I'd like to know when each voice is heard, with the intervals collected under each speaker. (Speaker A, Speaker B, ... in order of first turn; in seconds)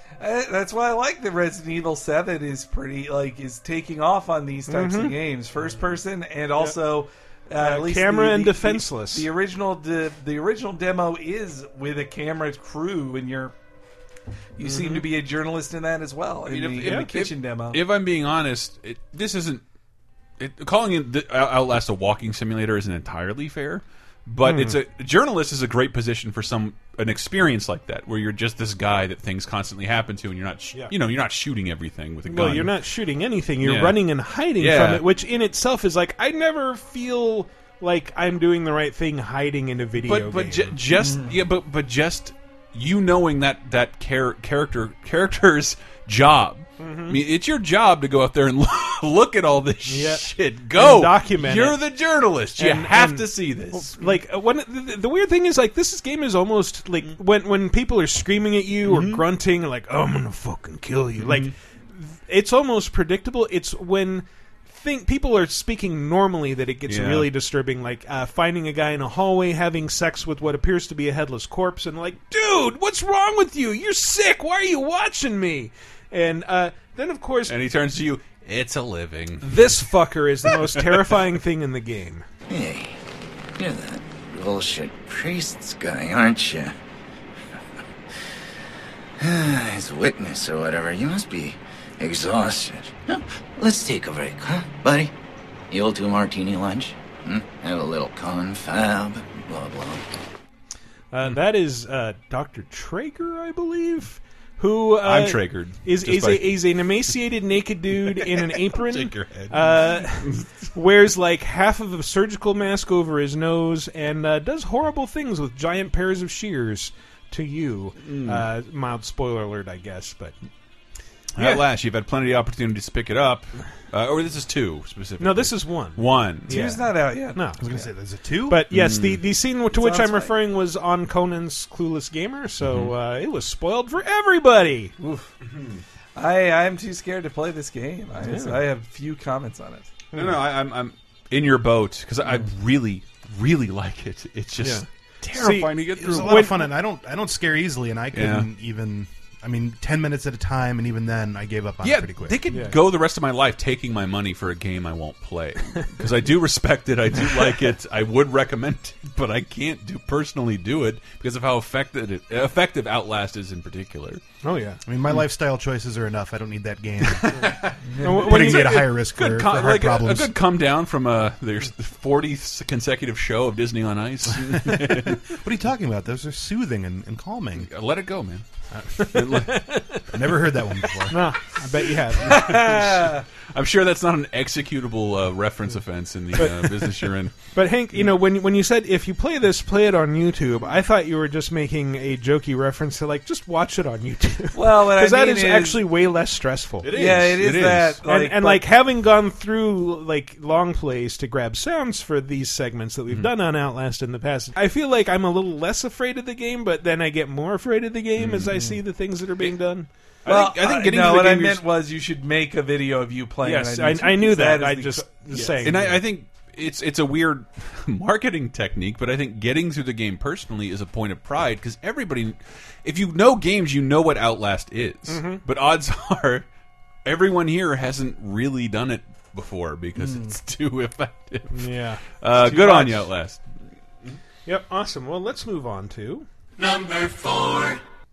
Speaker A: 0.2-13.5, 14.6-17.8, 41.0-41.3, 126.5-127.9, 129.7-130.3, 135.0-135.3, 136.2-139.9, 182.3-183.2, 194.6-195.8, 196.9-198.6, 208.5-208.8, 210.3-215.7, 230.0-230.3
Speaker B: 4.7-5.2, 7.6-9.3, 14.6-15.1, 16.8-17.1, 24.4-24.8, 32.3-40.8, 46.8-47.2, 49.9-51.8, 52.6-77.5, 79.4-82.3, 101.1-120.3, 121.4-121.7, 125.2-127.6, 128.5-134.9, 138.2-138.6, 140.1-140.4, 144.6-146.7, 152.5-152.8, 164.4-164.8, 168.0-169.0, 179.3-180.0, 181.1-183.0, 186.3-197.0, 198.1-209.9, 213.4-216.0, 225.1-225.4, 231.5-232.9, 234.5-236.3
Speaker C: 16.5-19.6, 20.4-32.7, 33.6-35.0, 40.0-54.1, 58.9-59.2, 61.2-61.5, 66.8-67.3, 77.5-79.6, 105.0-106.6, 108.2-110.5, 118.0-118.4, 121.4-126.5, 128.7-129.2, 132.6-132.9, 135.4-135.8, 140.1-146.6, 148.1-148.5, 151.8-164.2, 167.1-175.2, 177.6-178.4, 179.0-179.7, 182.3-187.4, 196.8-198.0, 208.2-208.6, 210.2-211.6, 215.4-226.5, 227.1-233.4
Speaker D: 82.5-83.0, 83.6-86.8, 89.2-95.1, 95.7-100.0
Speaker E: 127.6-128.7, 146.1-152.5, 164.9-167.5, 168.2-170.3, 174.6-177.7, 180.1-181.3